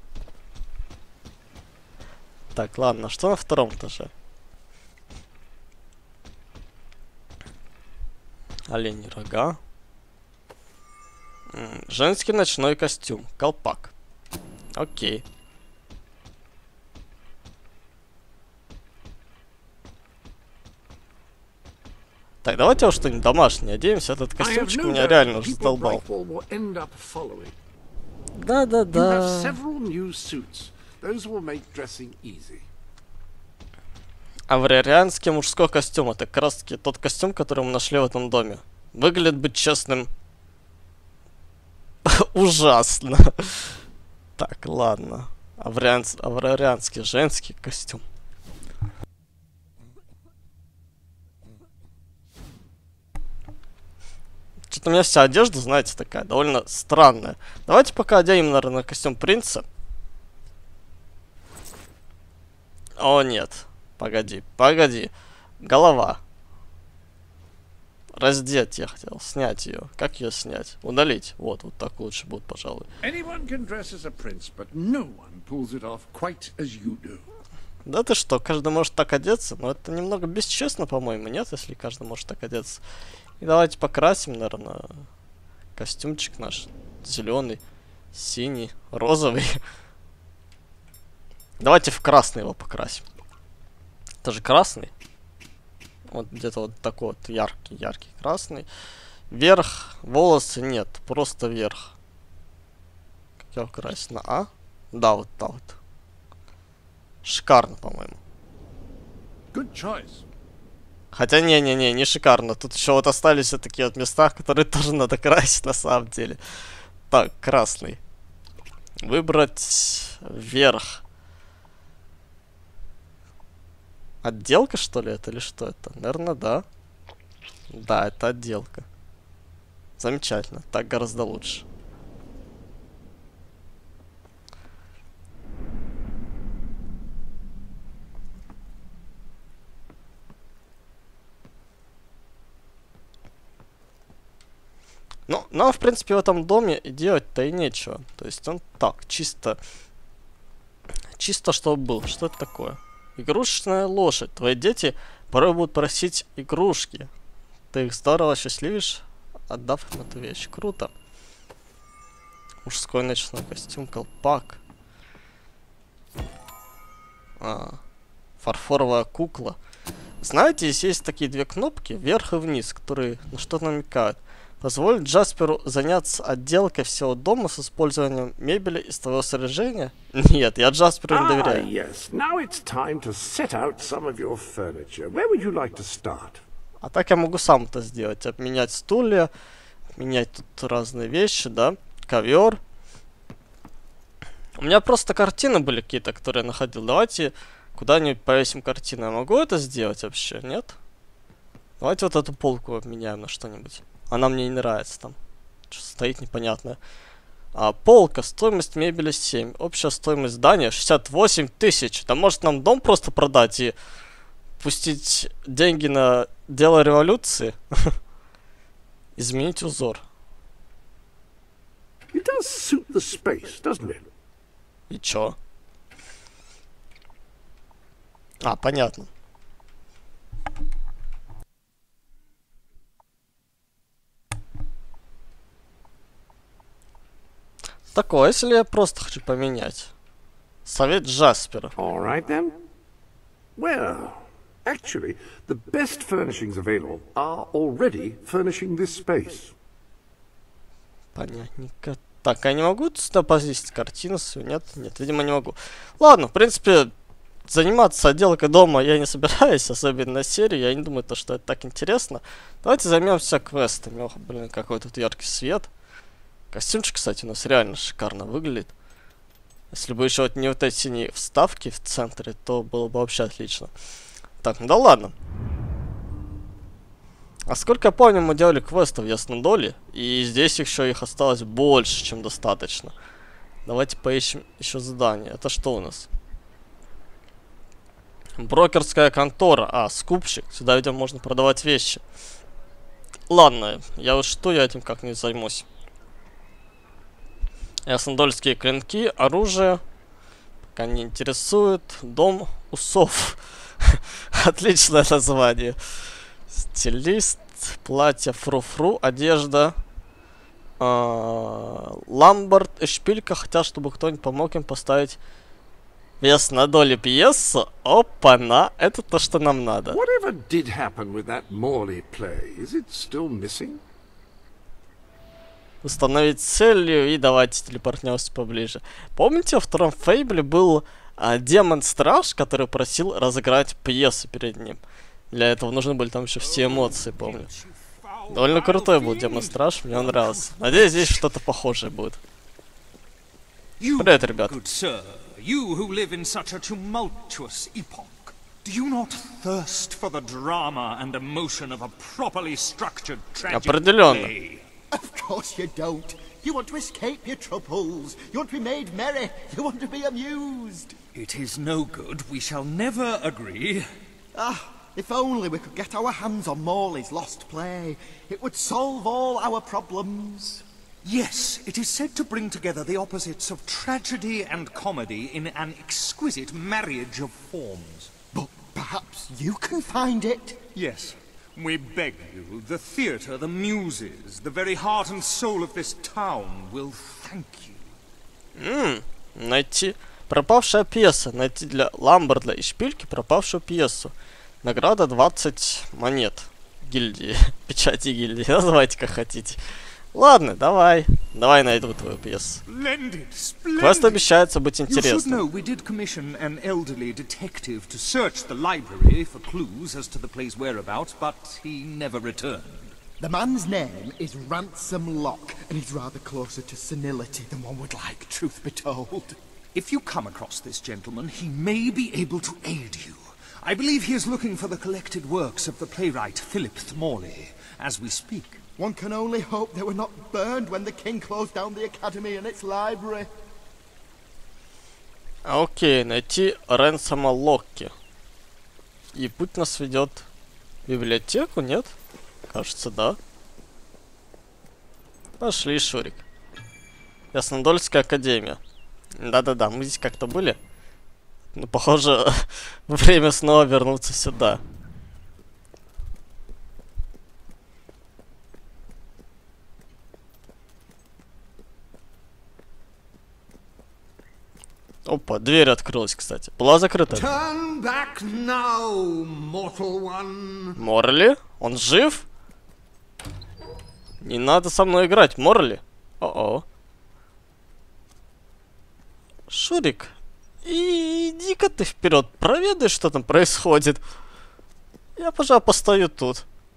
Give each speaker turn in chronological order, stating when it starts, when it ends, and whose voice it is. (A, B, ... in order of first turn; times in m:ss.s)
0:02.6-0:04.1 A
0:08.7-0:09.6 A
0:11.5-0:13.9 A
0:14.8-0:15.2 A
0:22.4-0:26.0 A
0:24.4-0:27.6 B
0:28.4-0:29.6 A
0:28.9-0:32.7 B
0:34.5-0:40.1 A
0:42.0-0:43.7 A
0:44.4-0:48.0 A
0:54.7-0:59.7 A
1:03.0-1:06.2 A
1:08.2-1:12.9 A
1:13.0-1:17.2 B
1:17.8-1:22.8 A
1:23.4-1:25.1 A
1:25.8-1:27.6 A
1:28.1-1:29.6 A
1:31.6-1:33.1 A
1:34.2-1:34.9 A
1:36.1-1:38.7 A
1:39.3-1:41.9 A
1:43.5-1:45.8 A
1:47.2-1:48.2 A
1:49.5-1:50.3 B
1:51.1-1:56.4 A
1:57.1-1:58.0 A
1:59.0-2:01.0 A
2:04.2-2:06.6 A
2:07.7-2:08.9 A
2:10.0-2:11.6 A
2:25.3-2:29.6 A
2:31.2-2:37.1 A
2:37.7-2:40.9 A
2:42.6-2:44.6 A
2:47.4-2:47.8 A
2:48.4-2:49.6 A
2:50.2-3:01.7 A
3:01.1-3:06.4 B
3:06.8-3:09.3 A
3:10.0-3:12.6 A
3:14.6-3:20.8 A
3:21.8-3:25.2 A
3:25.7-3:26.8 A
3:27.6-3:33.8 A
3:34.6-3:38.0 A
3:39.2-3:40.0 A
3:42.1-3:44.1 B
3:44.9-3:45.4 A
3:48.4-3:49.1 A
3:57.9-3:59.9 A
4:00.6-4:01.8 A
4:01.8-4:02.6 B
4:03.6-4:09.5 B
4:11.2-4:16.9 A
4:17.5-4:25.7 A
4:26.5-4:28.7 A
4:29.7-4:33.7 A
4:34.4-4:35.1 A
4:37.5-4:42.9 A
4:43.7-4:46.1 A
4:48.4-4:52.0 A
4:53.3-4:55.7 A
4:57.9-4:59.8 A
5:00.7-5:05.8 A
5:06.5-5:09.8 A
5:10.8-5:15.2 A
5:16.2-5:20.0 A
5:19.9-5:23.8 B
5:25.8-5:37.5 A
5:36.4-5:41.2 C
5:38.3-5:42.2 A
5:43.8-5:54.6 C
5:44.0-5:44.5 A
5:53.5-5:54.3 A
5:54.9-6:01.0 D
6:01.1-6:03.9 C
6:04.4-6:10.6 D
6:11.0-6:18.1 C
6:18.3-6:20.6 D
6:20.8-6:27.9 C
6:28.6-6:39.6 A
6:40.1-6:42.6 A
6:42.7-6:44.2 C
6:43.8-6:45.4 A
6:44.9-6:52.9 C
6:53.2-6:59.4 D
6:59.7-7:08.6 C
7:08.8-7:13.3 D
7:15.4-7:17.9 A
7:19.1-7:20.3 A
7:20.9-7:22.0 A
7:22.5-7:23.2 A
7:25.4-7:26.2 A
7:27.3-7:28.6 A
7:29.2-7:30.6 A
7:31.5-7:34.6 A
7:45.1-7:47.3 A
7:47.1-7:50.8 E
7:50.8-7:52.3 A
7:54.2-7:56.6 A
7:59.5-8:00.1 A
8:00.6-8:04.0 A
8:05.2-8:06.4 A